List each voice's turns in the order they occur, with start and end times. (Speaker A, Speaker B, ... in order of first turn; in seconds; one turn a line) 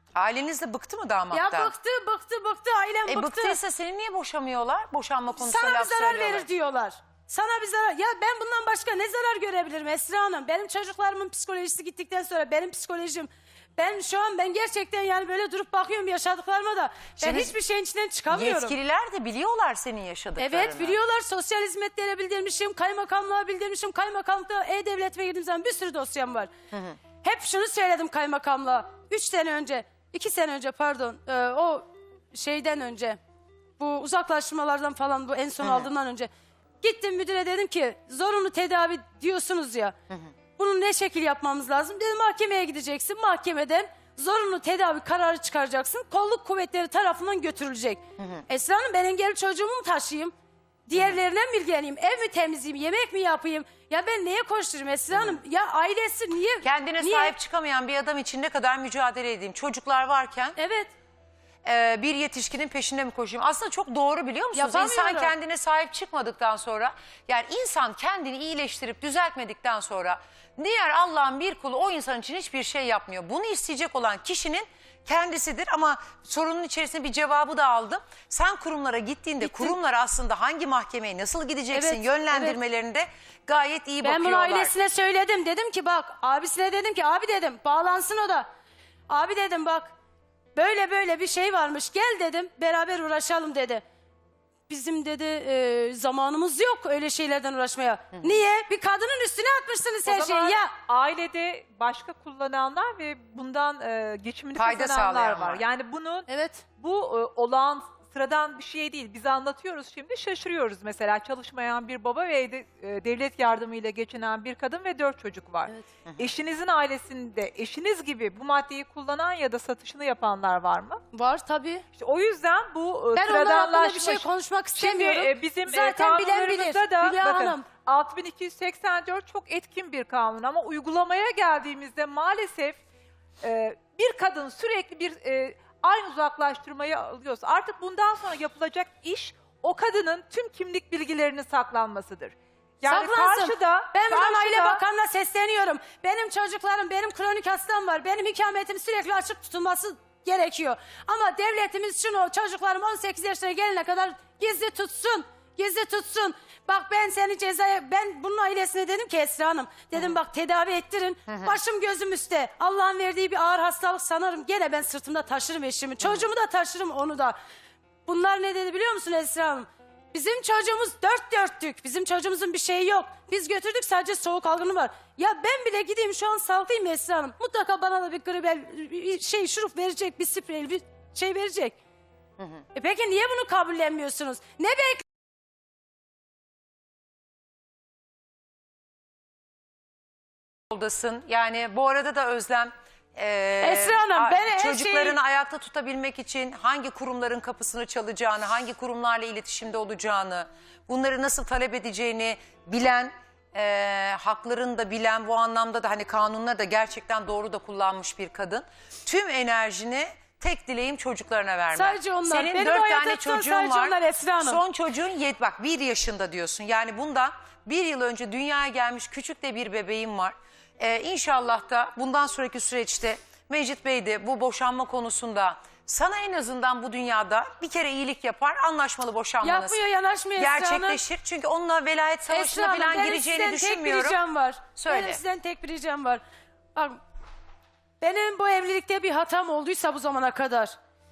Speaker A: 0.1-1.7
Speaker B: 1.3-3.6
Speaker A: 3.1-6.5
Speaker B: 5.4-18.8
Speaker A: 17.2-17.6
Speaker A: 18.3-21.0
Speaker B: 20.4-26.5
Speaker A: 26.7-27.0
Speaker B: 27.2-33.2
Speaker B: 33.8-36.3
Speaker A: 35.6-35.9
Speaker B: 36.8-40.0
Speaker B: 40.6-50.3
Speaker A: 48.2-48.4
Speaker B: 50.9-57.4
Speaker A: 55.1-55.4
Speaker A: 56.6-60.6
Speaker B: 60.6-60.9
Speaker A: 61.6-84.7
Speaker B: 64.5-65.3
Speaker B: 79.4-79.7
Speaker B: 81.7-82.6
Speaker B: 84.0-88.5
Speaker B: 89.1-89.9
Speaker B: 90.5-93.8
Speaker B: 94.7-100.7
Speaker A: 98.1-98.4
Speaker C: 100.1-121.0
Speaker A: 104.5-105.6
Speaker B: 106.3-106.6
Speaker B: 121.1-121.8
Speaker C: 122.0-132.8
Speaker B: 123.2-127.7
Speaker C: 133.4-144.8
Speaker B: 142.8-167.4
Speaker A: 161.3-161.6
Speaker A: 166.0-166.3
Speaker B: 168.1-181.8
Speaker A: 182.4-182.6
Speaker B: 182.7-185.0
Speaker A: 190.7-229.8
Speaker B: 193.6-195.2
Speaker B: 211.7-214.6
Speaker B: 229.4-231.0
Speaker A: 230.4-234.2
Speaker B: 232.3-236.2
Speaker A: 234.8-235.2
Speaker B: 236.8-237.0
Speaker B: 238.0-240.7